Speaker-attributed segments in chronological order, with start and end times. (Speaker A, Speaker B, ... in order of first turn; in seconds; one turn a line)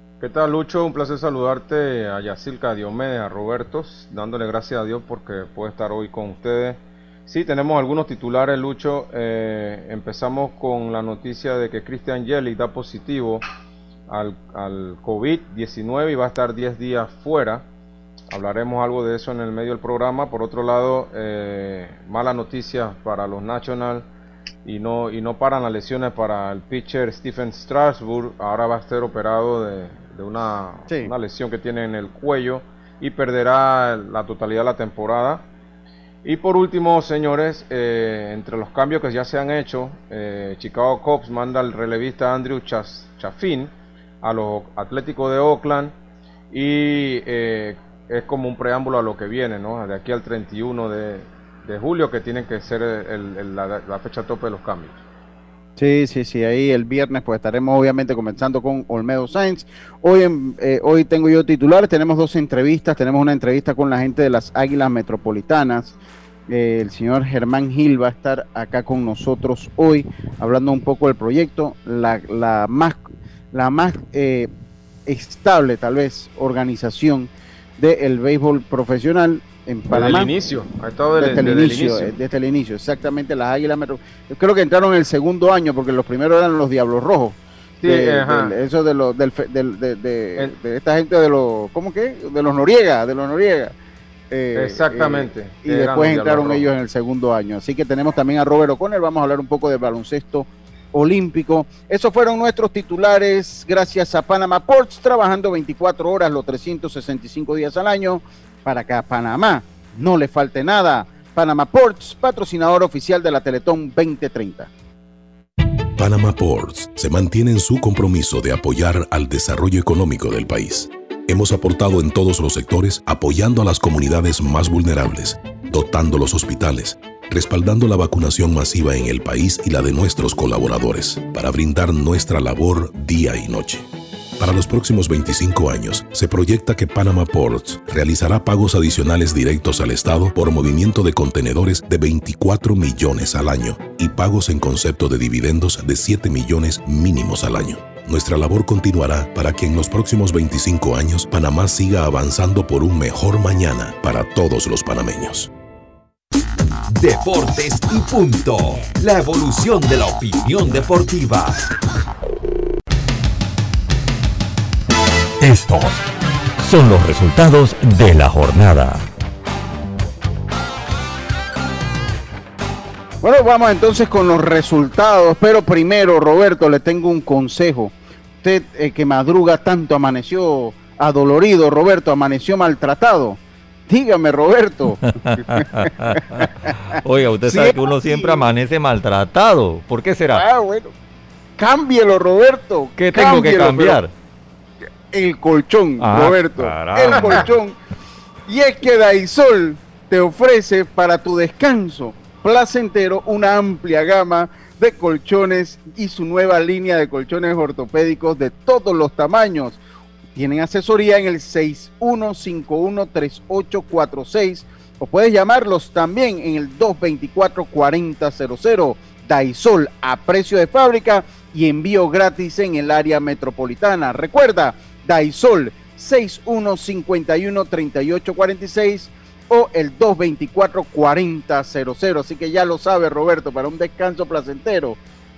Speaker A: 0.2-13.4
Speaker A: 14.1-17.7
Speaker A: 18.3-24.1
Speaker A: 24.6-35.5
Speaker A: 36.2-43.7
Speaker A: 44.2-45.9
Speaker A: 46.5-55.0
Speaker B: 55.8-65.9
Speaker B: 66.5-74.5
Speaker B: 75.1-80.3
Speaker A: 79.9-82.2
Speaker B: 81.2-93.8
Speaker A: 87.8-88.5
Speaker B: 94.3-114.7
Speaker A: 94.5-96.7
Speaker C: 116.0-133.9
Speaker C: 134.4-155.5
Speaker D: 156.9-161.7
Speaker E: 165.4-166.0
Speaker E: 166.6-169.1
Speaker B: 173.2-185.7
Speaker F: 185.1-190.4
Speaker B: 186.2-186.8
Speaker B: 187.5-188.4
Speaker B: 190.3-190.9
Speaker B: 191.6-194.0
Speaker F: 193.0-194.1
Speaker B: 195.1-197.8
Speaker F: 196.0-197.5
Speaker B: 198.5-209.8
Speaker B: 210.3-235.0